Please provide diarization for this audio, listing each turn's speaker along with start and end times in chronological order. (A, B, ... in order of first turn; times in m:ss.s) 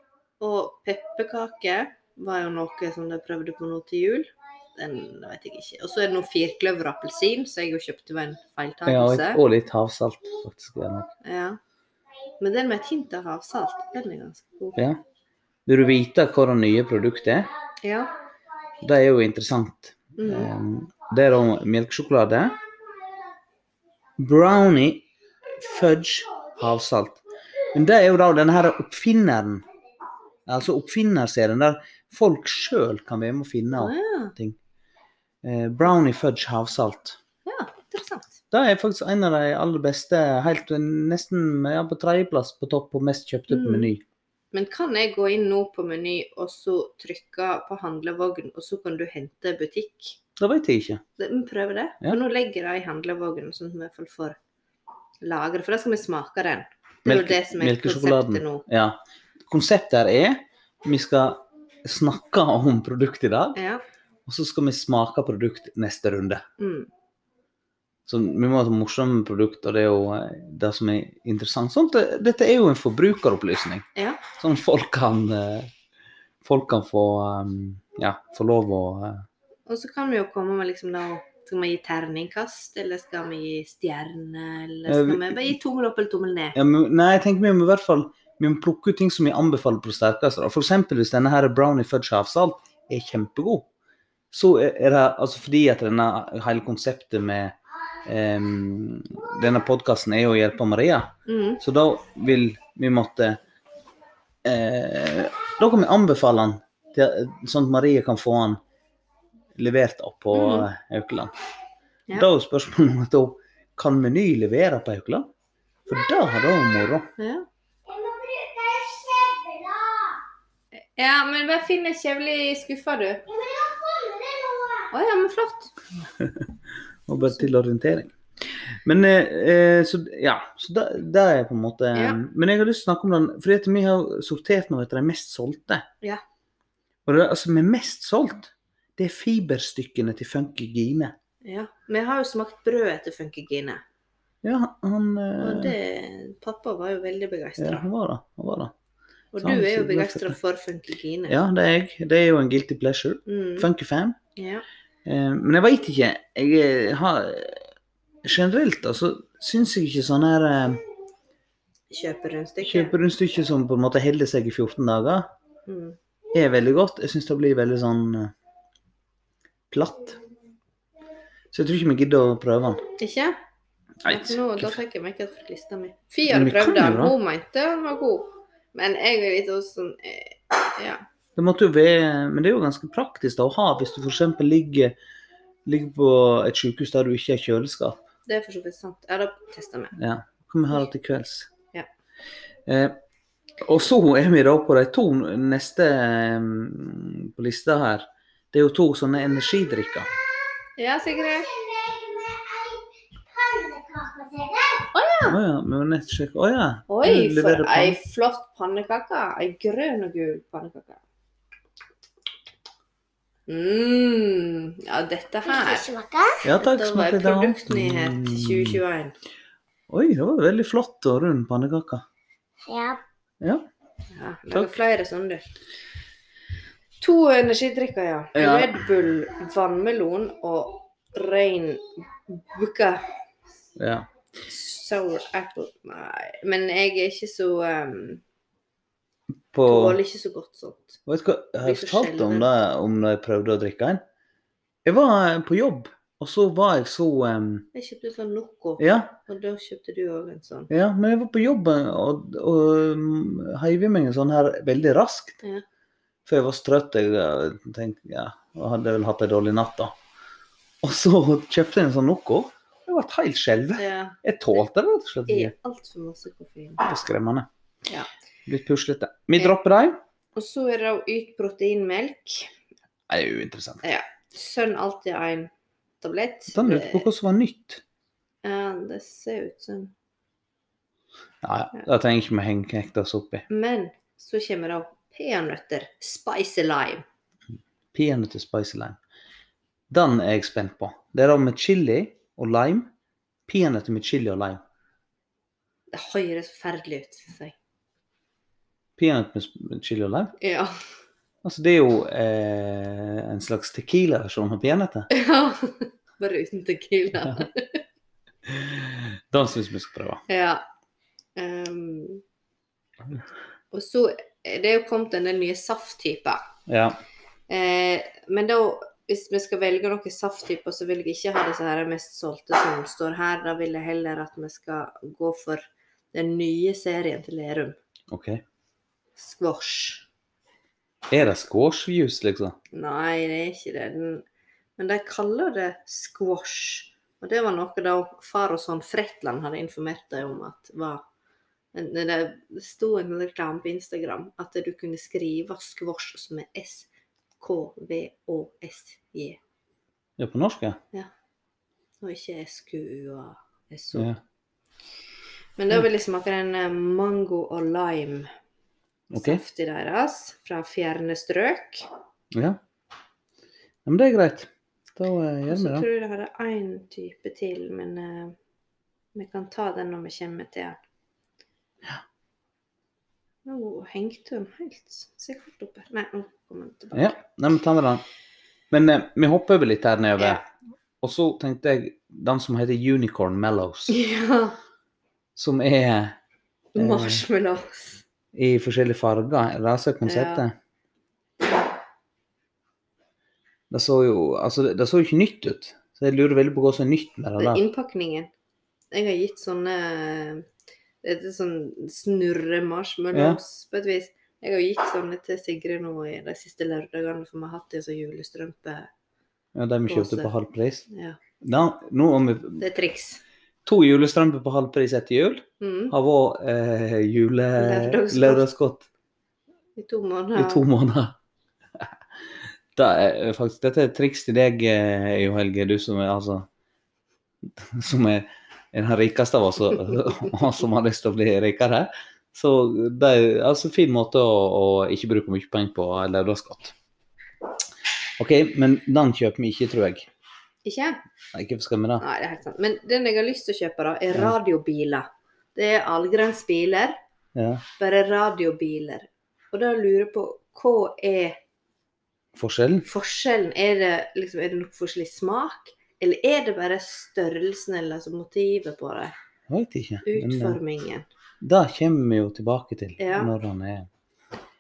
0:00.4-0:09.4 A
0:08.8-0:11.1 B
0:11.2-0:11.6 A
0:12.4-0:14.8 A
0:14.8-0:15.0 B
0:15.6-0:17.5 B
0:17.8-0:18.1 A
0:18.8-0:22.6 B
0:20.2-0:20.5 A
0:24.2-0:25.0 B
0:25.6-0:27.2 B
0:27.7-0:29.6 B
0:30.5-0:34.6 B
0:33.8-0:34.3 A
0:35.4-0:37.2 B
0:37.4-0:38.4 A
0:38.5-0:44.0 B
0:43.5-0:43.9 A
0:44.5-0:50.2 A
0:50.4-0:51.0 B
0:51.2-0:54.4 A
0:55.2-0:58.6 A
0:57.0-1:03.6 B
1:03.6-1:03.8 A
1:04.2-1:06.4 B
1:06.6-1:06.9 A
1:08.1-1:15.7 B
1:14.0-1:14.2 A
1:16.4-1:19.2 B
1:19.7-1:26.6 A
1:24.9-1:25.5 B
1:26.6-1:33.7 B
1:34.3-1:43.4 B
1:41.3-1:41.6 A
1:44.4-1:48.6 B
1:49.5-1:51.3 B
1:50.3-1:50.7 A
1:52.1-1:55.3 B
1:55.9-1:57.1 B
1:57.2-1:57.5 A
1:57.9-2:00.2 C
2:01.0-2:03.2 A
2:03.3-2:04.9 C
2:04.9-2:05.7 A
2:06.2-2:06.5 B
2:07.1-2:15.9 B
2:11.9-2:12.2 A
2:17.0-2:21.1 B
2:21.4-2:23.8 A
2:24.4-2:25.8 B
2:25.4-2:27.8 A
2:27.6-2:28.7 B
2:29.3-2:31.4 A
2:29.4-2:30.4 B
2:31.3-2:34.2 B
2:33.2-2:33.7 A
2:34.4-2:34.6 A
2:35.0-2:37.7 B
2:38.2-2:40.8 B
2:41.9-2:42.9 A
2:42.6-2:45.3 B
2:45.7-2:46.0 A
2:46.3-2:48.3 B
2:49.7-2:50.2 B
2:51.5-2:52.8 B
2:53.0-2:53.4 A
2:54.0-2:54.8 B
2:54.0-3:01.0 A
2:56.3-2:57.1 B
3:01.4-3:05.0 B
3:05.6-3:08.0 B
3:08.3-3:09.9 A
3:10.0-3:11.5 B
3:12.7-3:13.0 B
3:13.6-3:20.1 B
3:20.8-3:21.5 A
3:21.5-3:24.9 C
3:24.9-3:25.4 A
3:25.3-3:28.0 B
3:26.9-3:31.0 A
3:33.5-3:35.9 A
3:35.5-3:36.4 C
3:36.4-3:38.8 B
3:36.5-3:39.2 A
3:39.9-3:42.0 B
3:42.6-3:43.0 C
3:43.4-3:43.7 B
3:44.1-3:45.5 A
3:47.0-3:53.0 A
3:48.3-3:48.8 B
3:53.8-3:54.1 B
3:54.5-3:58.2 A
3:59.5-4:00.0 B
3:59.6-4:01.0 A
4:01.1-4:04.0 B
4:01.6-4:02.5 A
4:04.8-4:07.7 B
4:07.7-4:10.7 A
4:08.8-4:09.1 B
4:10.7-4:15.4 B
4:16.2-4:19.9 B
4:20.8-4:25.5 B
4:23.8-4:24.2 A
4:25.3-4:26.8 A
4:26.8-4:27.5 B
4:28.5-4:30.0 B
4:30.4-4:32.5 A
4:33.1-4:33.8 B
4:33.8-4:37.0 A
4:36.5-4:37.8 B
4:38.4-4:39.9 A
4:41.4-4:43.4 B
4:43.5-4:47.0 A
4:47.9-4:49.0 B
4:49.9-4:52.9 B
4:53.5-4:54.6 B
4:55.9-4:57.5 A
4:59.0-5:00.3 B
5:00.4-5:00.7 A
5:01.4-5:05.1 B
5:05.1-5:07.8 A
5:08.4-5:10.2 B
5:10.3-5:10.6 A
5:11.4-5:12.2 A
5:13.7-5:16.5 A
5:16.7-5:17.0 B
5:17.5-5:27.8 A
5:28.1-5:28.4 B
5:29.2-5:30.0 A
5:31.1-5:32.6 B
5:32.7-5:34.2 A
5:34.8-5:41.0 A
5:41.7-5:46.9 A
5:47.4-5:49.4 A
5:50.2-5:50.8 B
5:52.0-5:54.1 A
5:53.9-5:54.2 B
5:55.6-5:58.3 A
5:59.1-5:59.4 B
5:59.1-6:01.9 A
6:02.3-6:02.6 B
6:03.8-6:05.8 B
6:05.5-6:08.4 A
6:09.1-6:10.8 A
6:13.4-6:17.2 A
6:16.9-6:18.0 B
6:18.7-6:20.4 B
6:21.0-6:24.0 B
6:23.9-6:24.6 A
6:25.4-6:26.2 B
6:26.7-6:28.0 A
6:26.8-6:27.2 B
6:28.3-6:30.5 B
6:30.0-6:30.4 A
6:33.7-6:37.6 B
6:37.4-6:38.3 A
6:38.9-6:40.4 A
6:41.0-6:48.9 A
6:43.1-6:43.4 B
6:49.5-6:50.8 B
6:49.9-6:50.3 A
6:50.9-6:51.2 A
6:51.4-6:52.6 B
6:52.6-6:53.2 A
6:53.6-6:58.9 B
6:55.6-6:55.9 A
6:57.6-6:58.4 A
6:59.8-7:00.7 A
7:00.3-7:01.2 B
7:02.7-7:06.5 B
7:07.4-7:16.7 B
7:18.2-7:20.1 B
7:20.6-7:21.0 A
7:21.3-7:22.0 B
7:22.0-7:27.0 A
7:27.3-7:27.6 B
7:27.8-7:31.4 A
7:32.3-7:32.8 B
7:32.8-7:39.1 A
7:39.5-7:40.6 B
7:40.0-7:41.1 A
7:41.4-7:43.9 B
7:43.0-7:43.3 A